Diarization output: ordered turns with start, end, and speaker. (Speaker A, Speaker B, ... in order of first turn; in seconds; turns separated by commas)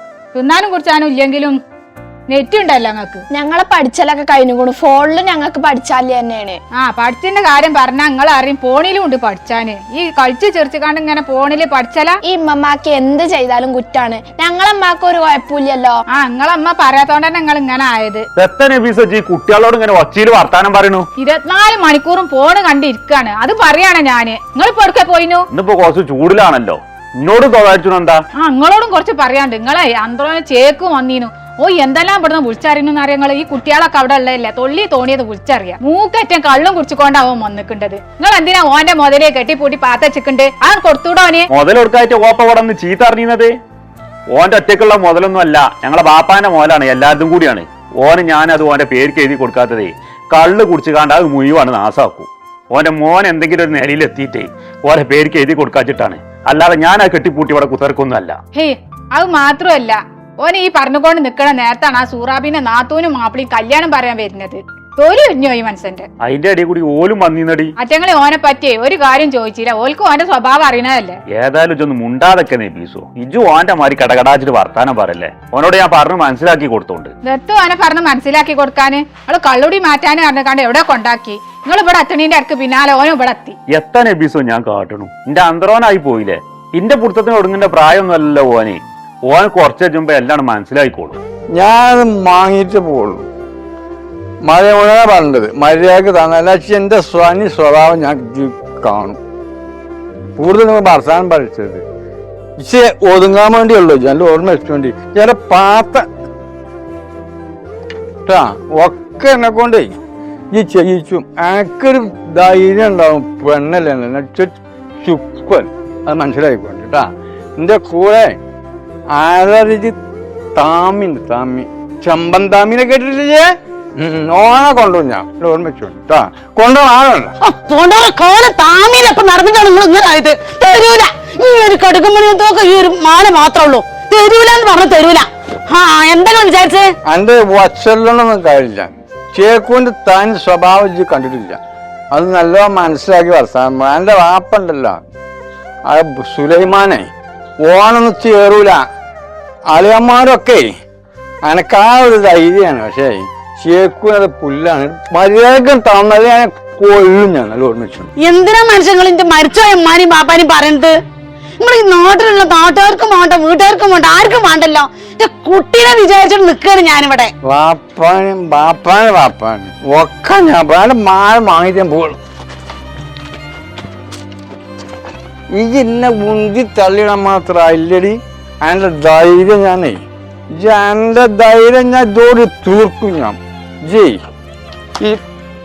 Speaker A: 0.3-1.6, Speaker A: 2.3-3.2, Speaker B: 3.3-6.6, Speaker A: 6.8-12.2, Speaker B: 12.2-16.0, Speaker A: 16.1-18.2, Speaker C: 18.4-21.1, Speaker A: 21.2-25.4, Speaker C: 25.5-28.2, Speaker A: 28.4-41.5, Speaker C: 41.5-43.5, Speaker C: 44.3-58.3, Speaker A: 58.5-66.0, Speaker C: 66.2-67.7, Speaker A: 67.8-71.2, Speaker C: 71.3-77.1, Speaker A: 77.2-83.5, Speaker C: 83.7-91.2, Speaker D: 91.5-93.2, Speaker D: 94.4-99.2, Speaker D: 100.4-101.8, Speaker D: 102.6-106.0, Speaker D: 108.2-109.9, Speaker D: 110.5-118.4, Speaker D: 119.1-120.0, Speaker D: 120.5-127.3, Speaker E: 127.4-136.9, Speaker D: 137.1-141.6, Speaker D: 142.1-145.0, Speaker D: 145.8-147.1, Speaker D: 147.6-148.8, Speaker D: 149.7-150.7, Speaker D: 151.4-158.1, Speaker E: 158.2-160.9, Speaker E: 161.6-167.3, Speaker D: 167.4-172.2, Speaker D: 175.5-184.2